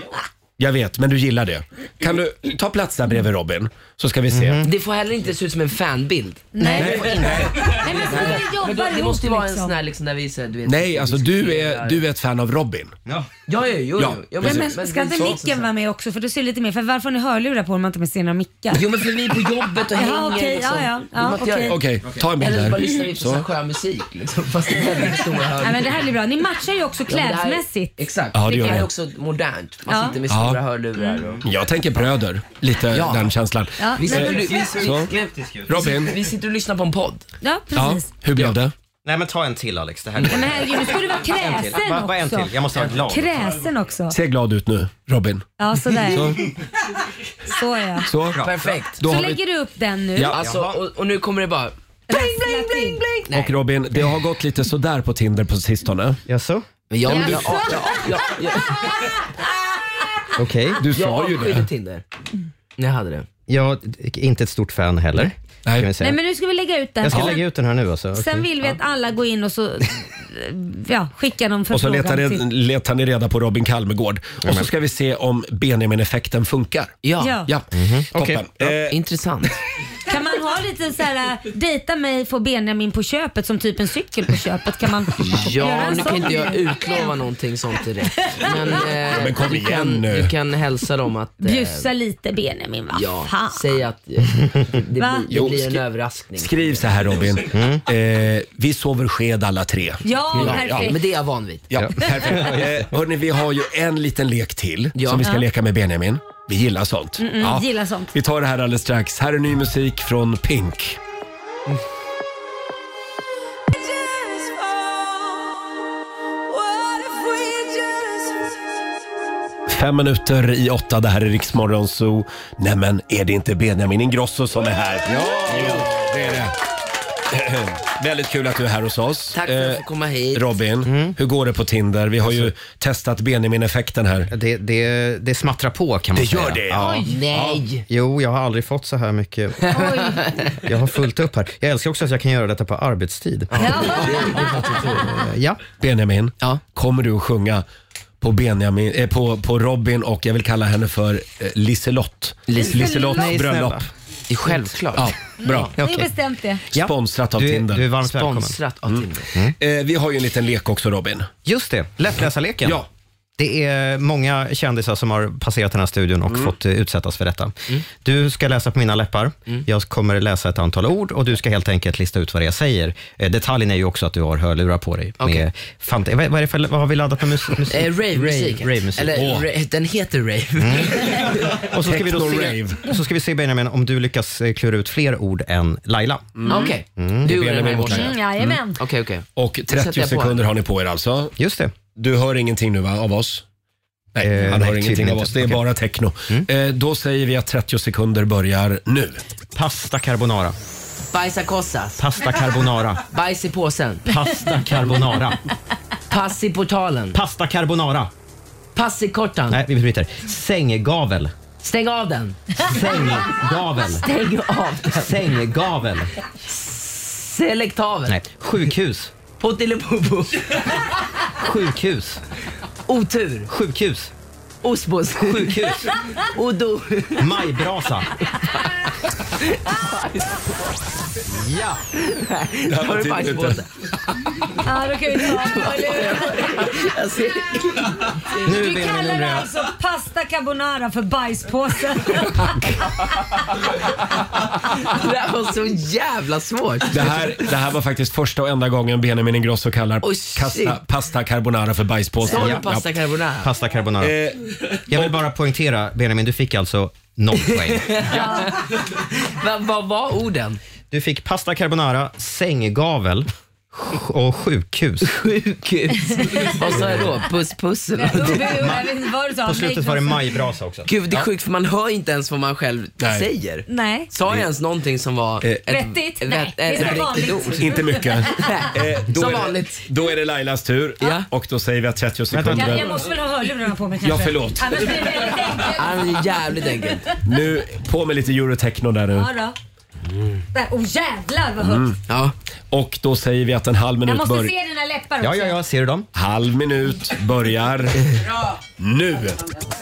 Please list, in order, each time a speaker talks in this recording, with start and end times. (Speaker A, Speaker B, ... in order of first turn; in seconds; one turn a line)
Speaker A: 0.6-4.6
Speaker B: 4.3-4.7
Speaker C: 4.6-12.0
Speaker D: 6.5-9.7
Speaker A: 6.7-8.0
Speaker B: 6.8-7.4
Speaker A: 10.6-12.9
Speaker C: 13.5-15.7
Speaker A: 14.0-15.3
Speaker D: 14.4-18.9
Speaker C: 18.7-25.9
Speaker D: 19.9-21.8
Speaker A: 21.7-23.4
Speaker D: 25.6-28.8
Speaker C: 27.1-31.4
Speaker A: 28.3-28.9
Speaker D: 29.9-30.2
Speaker A: 30.3-30.6
Speaker D: 31.0-31.2
Speaker A: 31.4-35.1
Speaker C: 32.9-33.3
Speaker D: 33.8-34.3
Speaker C: 34.0-35.0
Speaker B: 34.1-36.0
Speaker A: 35.7-36.2
Speaker C: 35.7-37.3
Speaker D: 37.4-38.1
Speaker A: 37.8-38.7
Speaker B: 39.0-43.6
Speaker D: 40.2-42.5
Speaker D: 43.1-44.1
Speaker A: 44.1-45.5
Speaker D: 45.6-46.3
Speaker A: 46.1-46.5
Speaker D: 47.5-48.1
Speaker A: 48.1-49.4
Speaker B: 48.3-48.6
Speaker C: 48.4-49.0
Speaker D: 49.0-50.3
Speaker A: 50.1-50.4
Speaker C: 50.3-51.7
Speaker B: 50.3-50.8
Speaker D: 52.1-53.0
Speaker C: 53.1-53.5
Speaker A: 53.3-56.2
Speaker B: 56.3-56.6
Speaker C: 56.9-58.9
Speaker D: 57.0-59.2
Speaker A: 57.1-57.8
Speaker B: 60.4-60.8
Speaker A: 60.8-61.7
Speaker C: 60.9-62.0
Speaker C: 62.8-63.3
Speaker B: 63.5-66.2
Speaker D: 66.0-67.4
Speaker B: 67.0-68.7
Speaker D: 68.1-72.4
Speaker A: 71.7-79.0
Speaker B: 74.4-74.7
Speaker C: 77.0-77.4
Speaker D: 77.2-77.5
Speaker B: 77.7-78.7
Speaker C: 78.7-79.6
Speaker D: 80.0-87.1
Speaker C: 85.2-91.9
Speaker D: 88.2-88.8
Speaker A: 89.0-90.3
Speaker D: 91.4-93.8
Speaker C: 92.9-97.4
Speaker D: 95.0-95.3
Speaker A: 95.3-95.8
Speaker A: 96.3-100.9
Speaker B: 97.5-97.8
Speaker D: 100.0-101.0
Speaker C: 100.4-101.7
Speaker A: 101.7-111.0
Speaker B: 101.8-102.8
Speaker C: 104.9-105.3
Speaker D: 107.2-108.1
Speaker D: 116.8-117.7
Speaker A: 119.7-126.5
Speaker B: 125.0-125.9
Speaker A: 127.3-129.8
Speaker C: 129.3-130.6
Speaker A: 130.3-134.3
Speaker B: 130.8-131.2
Speaker B: 132.2-132.5
Speaker B: 134.3-137.2
Speaker A: 136.1-137.6
Speaker C: 136.8-137.9
Speaker D: 136.8-137.1
Speaker B: 137.9-145.6
Speaker C: 139.6-140.6
Speaker D: 139.7-140.2
Speaker C: 143.5-145.1
Speaker D: 143.6-144.8
Speaker A: 145.8-147.6
Speaker A: 148.2-153.8
Speaker C: 152.5-152.8
Speaker D: 152.5-153.3
Speaker B: 153.0-153.9
Speaker C: 154.3-155.1
Speaker B: 154.4-154.7
Speaker A: 154.9-155.7
Speaker D: 155.4-156.6
Speaker B: 155.8-156.1
Speaker B: 156.7-158.6
Speaker A: 156.7-157.9
Speaker C: 158.0-159.3
Speaker A: 159.6-161.3
Speaker B: 161.4-162.8
Speaker B: 163.4-179.2
Speaker C: 175.2-175.4
Speaker C: 177.7-181.6
Speaker A: 179.1-179.5
Speaker B: 180.6-187.4
Speaker A: 181.6-182.8
Speaker A: 186.4-188.6
Speaker C: 186.5-188.1
Speaker D: 187.9-188.8
Speaker C: 188.8-190.4
Speaker A: 189.3-191.3
Speaker B: 191.4-191.7
Speaker A: 191.9-193.4
Speaker A: 194.1-199.2
Speaker B: 194.2-195.6
Speaker B: 199.5-200.5
Speaker C: 201.1-202.0
Speaker B: 202.0-203.0
Speaker C: 203.1-204.1
Speaker B: 204.1-205.4
Speaker C: 206.1-207.2
Speaker B: 207.1-208.1
Speaker C: 208.7-209.6
Speaker B: 209.5-211.3
Speaker C: 211.6-212.7
Speaker B: 212.6-214.1
Speaker C: 213.8-215.3
Speaker B: 214.8-216.1
Speaker C: 216.4-218.2
Speaker B: 218.1-219.1
Speaker C: 219.4-220.8
Speaker B: 221.4-222.2
Speaker C: 222.9-223.5
Speaker B: 223.5-224.1
Speaker C: 224.6-227.3
Speaker B: 225.2-226.0
Speaker B: 227.2-228.1
Speaker C: 229.4-230.5
Speaker B: 231.2-231.9
Speaker C: 231.9-233.7
Speaker A: 232.7-233.6
Speaker D: 234.6-236.6
Speaker C: 235.2-238.3
Speaker B: 238.3-239.5
Speaker D: 238.3-243.4
Speaker C: 244.7-247.5
Speaker A: 246.9-252.9
Speaker C: 250.0-250.8
Speaker C: 252.2-253.5
Speaker B: 252.3-252.7
Speaker B: 253.4-254.2
Speaker A: 254.0-255.2
Speaker B: 254.9-258.4
Speaker C: 257.4-260.6
Speaker D: 258.1-258.5
Speaker B: 260.9-265.1
Speaker C: 265.0-268.7
Speaker D: 266.0-266.5
Speaker A: 266.6-267.1
Speaker D: 268.0-270.2
Speaker B: 268.2-268.9
Speaker B: 269.4-270.9
Speaker C: 270.9-277.7
Speaker A: 273.0-273.3
Speaker D: 273.7-274.1
Speaker A: 275.4-275.7
Speaker D: 275.7-278.6
Speaker A: 276.7-282.9
Speaker C: 278.3-279.9
Speaker C: 281.0-281.3
Speaker B: 282.3-282.9
Speaker D: 282.5-287.1
Speaker A: 284.0-285.3
Speaker C: 285.7-287.1
Speaker A: 287.2-289.3
Speaker D: 289.1-289.5
Speaker D: 290.5-291.9
Speaker A: 291.6-292.0
Speaker C: 292.1-292.3
Speaker A: 292.7-294.5
Speaker D: 294.1-295.6
Speaker B: 295.2-296.1
Speaker A: 296.1-298.2
Speaker A: 298.8-299.4